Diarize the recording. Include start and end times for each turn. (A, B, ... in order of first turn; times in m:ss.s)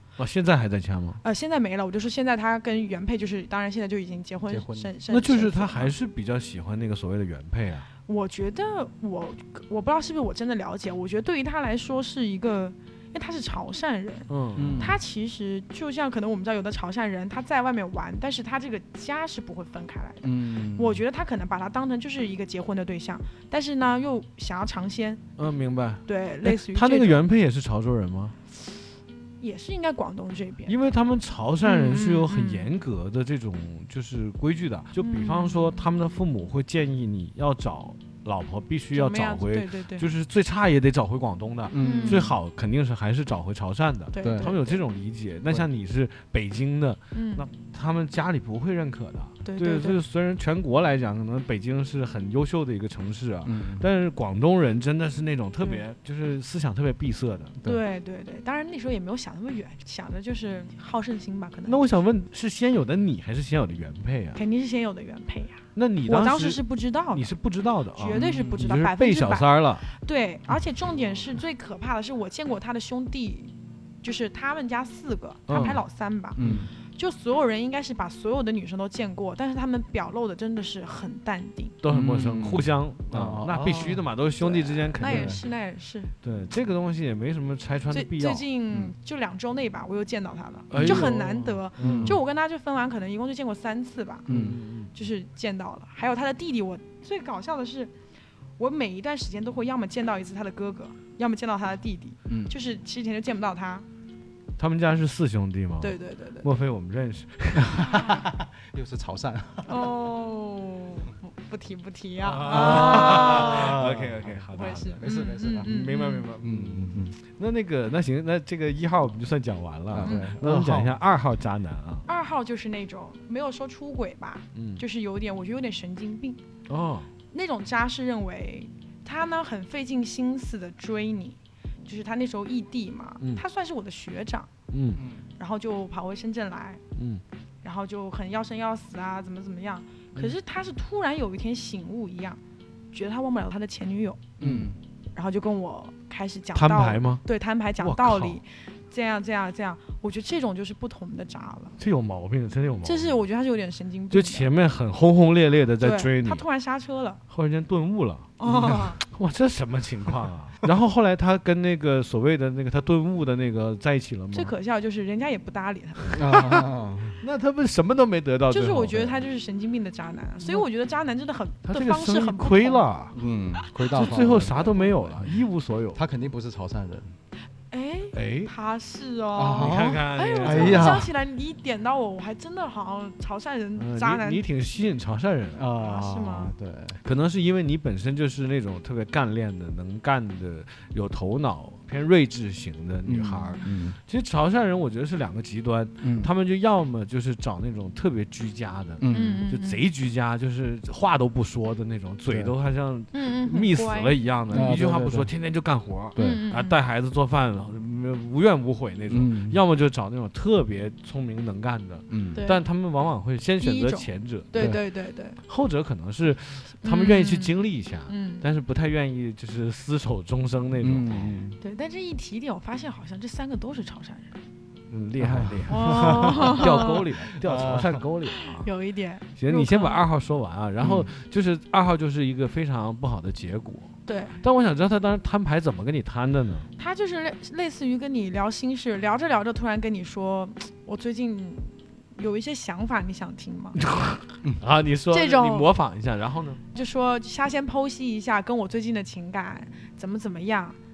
0:00.2-0:01.2 A
0:01.2-0:05.9 B
0:04.5-0:04.9 C
0:05.1-0:07.9 A
0:08.1-0:25.2 B
0:14.3-0:15.0 A
0:14.6-0:15.0 C
0:20.2-0:21.0 C
0:25.4-0:28.4 A
0:26.1-0:27.2 B
0:29.4-0:30.8 B
0:30.7-0:57.6 A
0:31.6-0:32.7 B
0:35.0-0:35.9 B
0:38.9-0:40.1 B
0:41.7-0:42.4 C
0:41.8-0:42.3 B
0:44.1-0:44.8 B
0:44.2-0:44.5 C
0:47.1-0:47.5 B
0:49.4-0:50.0 B
0:53.4-0:53.9 C
0:57.6-1:01.9 B
1:01.7-1:04.4 A
1:04.4-1:07.3 B
1:05.8-1:06.6 A
1:07.1-1:09.9 A
1:08.0-1:21.8 B
1:08.1-1:08.6 C
1:15.5-1:15.8 A
1:16.4-1:16.7 C
1:21.8-1:25.4 A
1:21.9-1:24.0 C
1:24.4-1:26.1 B
1:25.0-1:25.4 C
1:26.2-1:28.4 A
1:27.9-1:34.3 B
1:30.7-1:32.2 A
1:30.7-1:31.1 C
1:31.8-1:32.2 C
1:34.3-1:34.6 C
1:34.3-1:34.9 A
1:34.9-1:37.9 B
1:38.6-1:43.9 B
1:42.3-1:42.6 C
1:44.6-1:48.0 A
1:45.8-1:46.5 B
1:47.6-1:49.9 C
1:47.9-1:48.2 B
1:49.7-1:53.8 B
1:52.2-1:55.1 A
1:52.4-1:55.8 C
1:54.5-1:56.3 B
1:55.6-2:02.1 A
1:56.4-1:57.2 C
1:59.9-2:01.0 C
2:00.0-2:00.4 B
2:02.1-2:06.4 B
2:04.6-2:04.8 A
2:06.7-2:07.1 A
2:07.3-2:14.5 B
2:14.7-2:15.0 A
2:15.0-2:15.2 C
2:15.4-2:16.8 B
2:17.0-2:17.2 A
2:17.6-2:22.4 B
2:22.9-2:24.2 B
2:24.4-2:24.8 C
2:24.4-2:24.7 A
2:25.2-2:31.8 B
2:26.6-2:27.2 A
2:27.8-2:28.4 A
2:31.8-2:33.2 A
2:32.8-2:34.5 B
2:34.1-2:36.4 A
2:35.8-2:37.2 B
2:37.3-2:44.5 A
2:38.4-2:39.0 B
2:44.3-2:46.2 B
2:46.1-2:47.2 C
2:46.2-2:49.2 A
2:48.5-2:52.9 B
2:51.6-2:53.2 A
2:53.1-2:57.2 C
2:53.6-2:54.7 B
2:53.9-2:56.0 A
2:57.7-3:04.4 B
2:58.1-2:58.5 A
2:59.4-3:01.1 C
2:59.6-3:01.0 A
3:03.8-3:05.6 A
3:05.6-3:07.0 C
3:05.8-3:06.5 B
3:07.0-3:34.8 A
3:13.1-3:14.0 C
3:13.3-3:13.6 B
3:16.0-3:16.3 C
3:19.0-3:19.4 C
3:19.1-3:19.8 B
3:23.1-3:24.8 B
3:24.5-3:25.3 C
3:26.2-3:26.4 C
3:26.2-3:26.8 B
3:29.1-3:29.6 C
3:32.1-3:32.4 C
3:32.3-3:32.6 B
3:33.6-3:35.4 B
3:35.5-3:41.3 A
3:36.8-3:38.5 B
3:40.8-3:41.6 C
3:41.6-3:44.4 B
3:44.9-3:48.7 A
3:45.2-3:46.7 C
3:45.7-3:47.0 B
3:47.3-3:48.0 C
3:48.3-3:50.0 B
3:49.4-3:56.7 A
3:50.8-3:51.1 C
3:54.1-3:54.4 B
3:56.8-4:04.1 B
4:03.8-4:06.6 A
4:05.1-4:05.7 B
4:06.7-4:10.8 B